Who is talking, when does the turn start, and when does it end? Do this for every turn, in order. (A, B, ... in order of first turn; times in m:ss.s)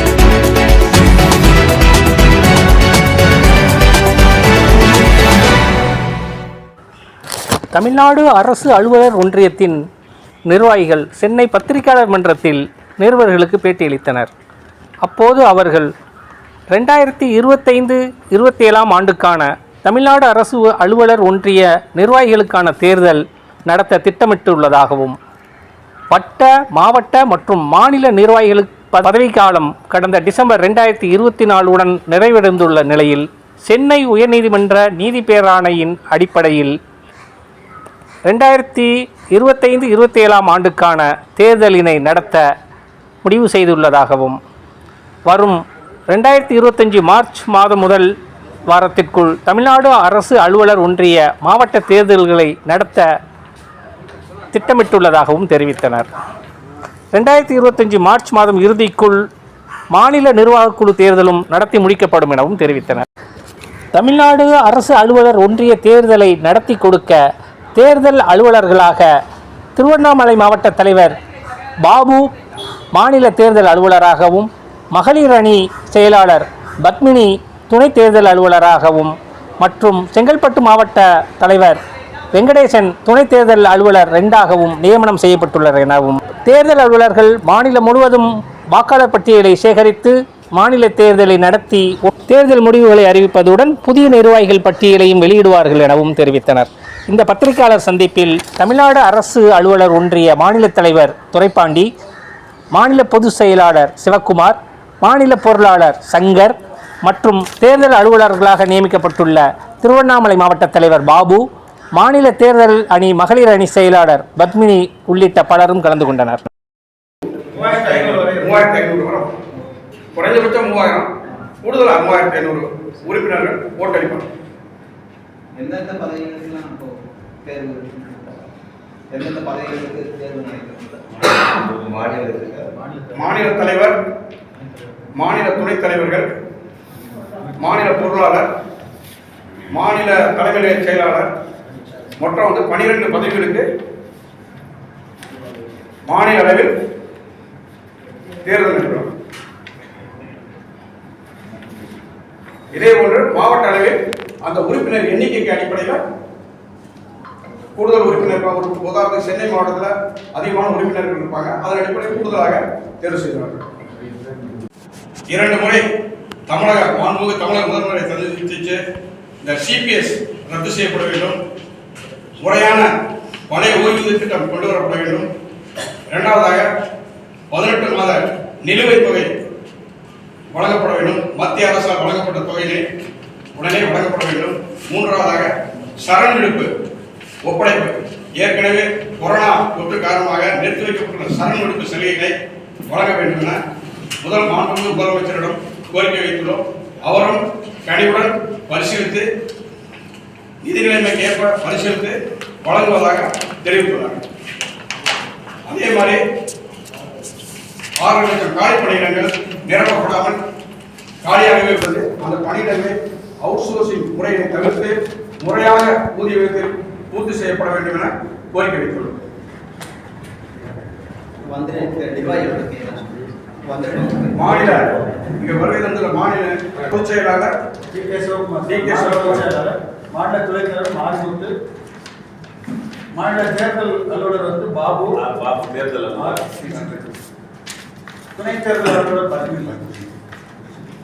0:07.7-0:09.8 A
0:10.5-0:14.3 A
0:15.0-0:15.9 A
0:16.7-0:25.2 A
0:26.1-0:36.8 A
0:38.2-0:42.5 A
0:43.2-0:44.4 A
0:45.3-0:48.1 A
0:48.7-0:53.1 A
0:54.5-0:56.1 A
0:57.1-0:59.2 A
0:59.9-1:03.1 A
1:03.9-1:07.2 A
1:07.8-1:09.1 A
1:09.8-1:11.2 A
1:11.8-1:12.2 A
1:12.9-1:21.8 A
1:22.3-1:41.9 A
1:42.7-1:56.4 A
1:57.5-1:58.6 B
1:57.8-1:59.3 C
2:00.2-2:01.1 C
2:01.6-2:04.3 C
2:05.6-2:08.5 D
2:09.1-2:12.1 D
2:11.4-2:12.6 E
2:12.7-2:13.1 D
2:13.1-2:14.0 C
2:15.2-2:16.3 C
2:17.6-2:18.5 C
2:19.7-2:21.3 C
2:22.2-2:23.7 C
2:26.1-2:26.7 C
2:28.4-2:29.1 C
2:32.7-2:36.0 C
2:37.8-2:43.6 C
2:45.3-2:45.8 C
2:46.5-2:48.8 C
2:49.4-2:51.4 C
2:52.4-2:52.9 C
2:53.5-2:55.3 C
2:56.1-2:56.7 C
2:57.5-2:59.3 C
3:00.5-3:02.8 C
3:03.6-3:06.7 C
3:07.4-3:12.4 C
3:12.9-3:13.6 C
3:14.2-3:19.3 C
3:20.6-3:24.2 C
3:25.7-3:26.2 C
3:28.0-3:30.4 C
3:31.2-3:39.2 C
3:41.4-3:44.4 D
3:44.3-3:47.5 C
3:44.7-3:44.9 B
3:47.9-3:51.5 B
3:48.7-3:49.4 C
3:53.2-3:55.2 B
3:55.2-3:56.4 E
3:56.2-3:56.9 B
3:58.4-3:59.8 B